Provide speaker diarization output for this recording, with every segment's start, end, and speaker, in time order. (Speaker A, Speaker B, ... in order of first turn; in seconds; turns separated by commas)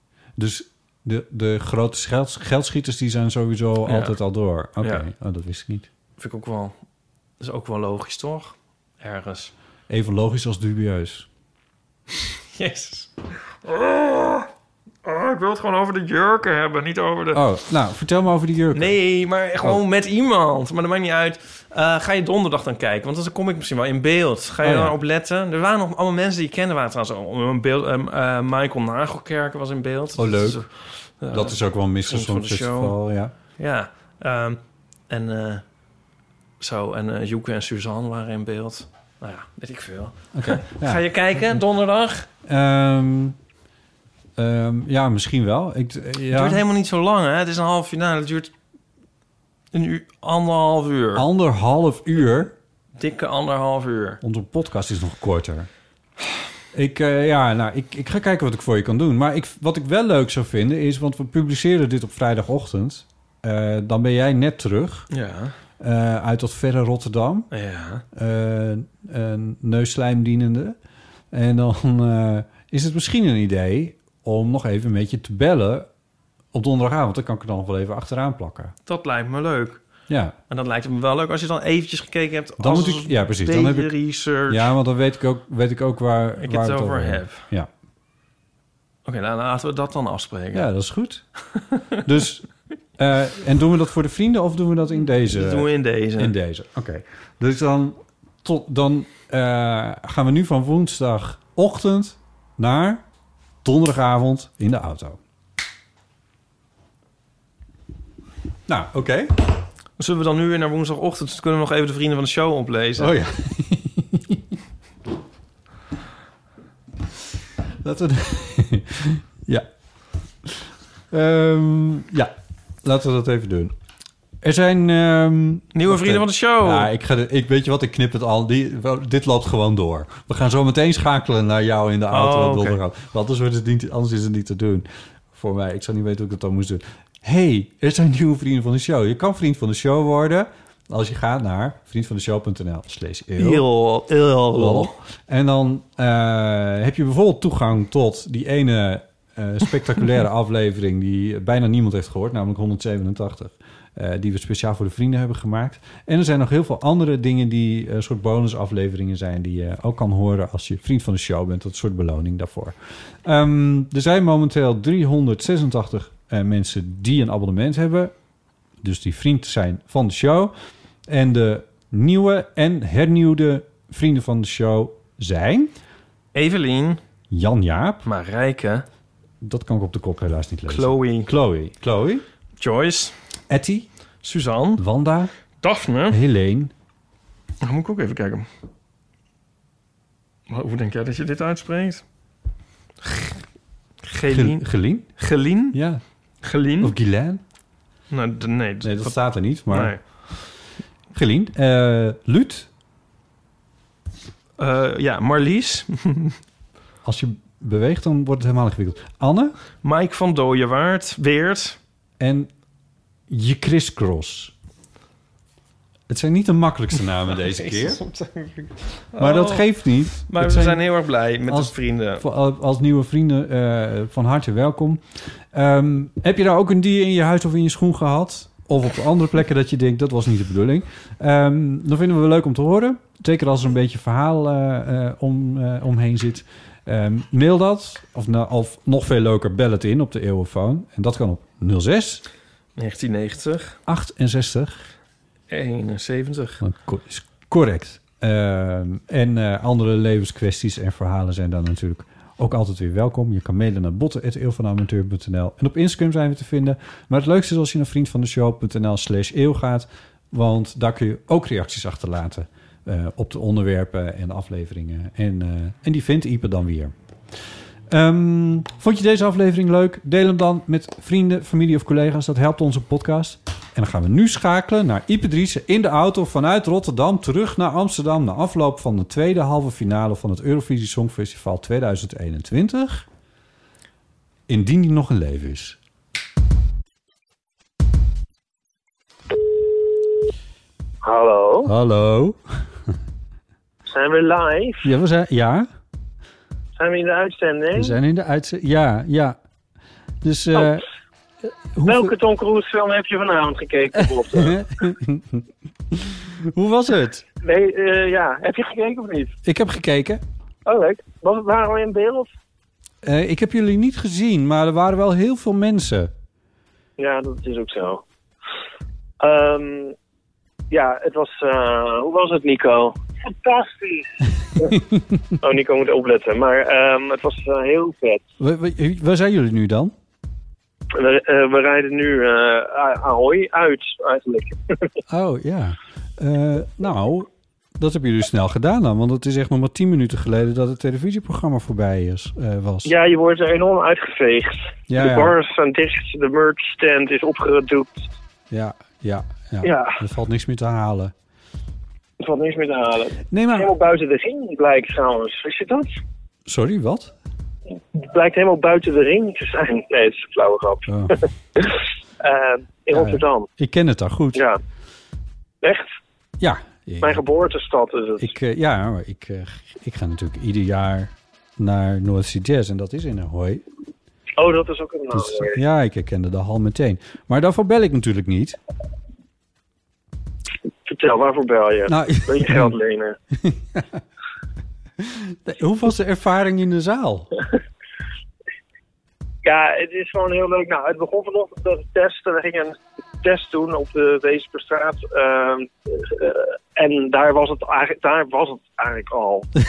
Speaker A: 0.4-5.9, Speaker B: 3.9-4.2, Speaker B: 4.8-5.0, Speaker B: 6.2-6.8, Speaker B: 7.4-9.5, Speaker A: 9.9-11.3, Speaker B: 12.5-14.5, Speaker B: 15.0-17.4, Speaker A: 17.3-19.0, Speaker B: 18.7-33.0, Speaker A: 24.6-25.0, Speaker A: 30.2-30.7, Speaker A: 31.3-33.3, Speaker B: 33.6-35.6, Speaker B: 36.6-42.3, Speaker A: 40.3-41.6, Speaker A: 42.5-43.4, Speaker A: 44.4-46.6, Speaker B: 46.3-48.5, Speaker B: 49.7-51.2, Speaker A: 51.1-52.5, Speaker B: 53.0-54.2, Speaker A: 54.2-55.7, Speaker A: 56.7-65.1, Speaker B: 65.1-65.5, Speaker A: 65.8-67.5, Speaker B: 67.5-68.0, Speaker A: 68.1-70.8, Speaker A: 71.3-75.9, Speaker A: 76.5-78.7, Speaker B: 78.9-79.8, Speaker A: 80.1-80.3, Speaker B: 80.5-84.7, Speaker A: 82.6-84.0, Speaker A: 84.5-87.7, Speaker B: 86.4-87.5, Speaker B: 89.0-90.7, Speaker A: 90.5-91.3, Speaker A: 92.0-103.0, Speaker B: 95.3-96.3, Speaker A: 103.6-105.2, Speaker A: 108.7-109.3, Speaker B: 110.0-113.2, Speaker A: 113.0-114.4, Speaker A: 117.8-119.7, Speaker A: 120.5-122.3, Speaker A: 122.8-123.7, Speaker A: 124.4-143.7, Speaker B: 125.7-126.9, Speaker B: 132.1-132.8, Speaker B: 143.4-144.9, Speaker A: 144.5-168.1, Speaker A: 168.8-170.5, Speaker A: 171.1-175.7, Speaker B: 176.3-177.0, Speaker A: 177.3-178.1, Speaker B: 178.1-178.8, Speaker A: 179.4-182.3, Speaker B: 180.7-181.3, Speaker B: 182.6-183.2, Speaker A: 183.5-183.9, Speaker B: 184.2-184.8, Speaker A: 184.8-185.3, Speaker B: 185.6-186.2, Speaker A: 186.1-186.7, Speaker B: 187.6-188.5, Speaker B: 190.5-192.0, Speaker B: 194.1-195.8, Speaker A: 194.3-195.2, Speaker A: 195.7-196.0, Speaker B: 196.4-196.9, Speaker A: 196.8-197.4, Speaker B: 198.1-200.1, Speaker A: 198.8-200.3, Speaker A: 201.1-202.7, Speaker B: 204.6-206.4, Speaker A: 207.0-209.6, Speaker B: 209.8-211.8, Speaker A: 212.2-212.5, Speaker A: 213.3-214.5, Speaker A: 216.1-218.0, Speaker B: 217.5-222.2, Speaker A: 219.2-220.9, Speaker A: 221.5-242.2, Speaker B: 242.8-243.8, Speaker A: 243.9-244.8, Speaker B: 245.5-246.6, Speaker A: 246.6-266.9, Speaker A: 267.9-283.1, Speaker A: 284.5-285.8, Speaker C: 291.0-291.7, Speaker A: 291.6-292.4, Speaker C: 293.9-294.9, Speaker A: 294.8-295.7, Speaker C: 296.8-298.0, Speaker A: 297.7-299.4, Speaker A: 300.2-300.9, Speaker C: 300.6-300.8, Speaker A: 301.8-302.1, Speaker C: 301.8-304.6, Speaker A: 304.3-307.2, Speaker C: 307.4-309.4, Speaker A: 309.4-310.2, Speaker C: 310.7-312.3, Speaker A: 313.0-316.1, Speaker C: 317.0-318.0, Speaker C: 319.2-319.9, Speaker C: 320.7-324.1, Speaker C: 325.4-328.2, Speaker A: 328.4-329.9, Speaker C: 330.9-334.9, Speaker A: 335.1-342.9, Speaker C: 342.9-348.1, Speaker A: 344.9-345.4, Speaker A: 348.5-351.1, Speaker C: 349.6-350.0, Speaker C: 352.2-355.9, Speaker A: 353.3-353.7, Speaker A: 356.5-357.1, Speaker C: 357.9-363.5, Speaker A: 360.9-361.2, Speaker A: 362.9-364.5, Speaker C: 365.6-365.9, Speaker A: 366.4-367.2, Speaker C: 367.0-368.3, Speaker A: 368.2-373.6, Speaker C: 374.4-375.6, Speaker A: 375.1-378.6, Speaker C: 380.9-383.2, Speaker A: 381.9-382.8, Speaker A: 383.4-383.9, Speaker A: 385.0-387.3, Speaker C: 389.4-399.5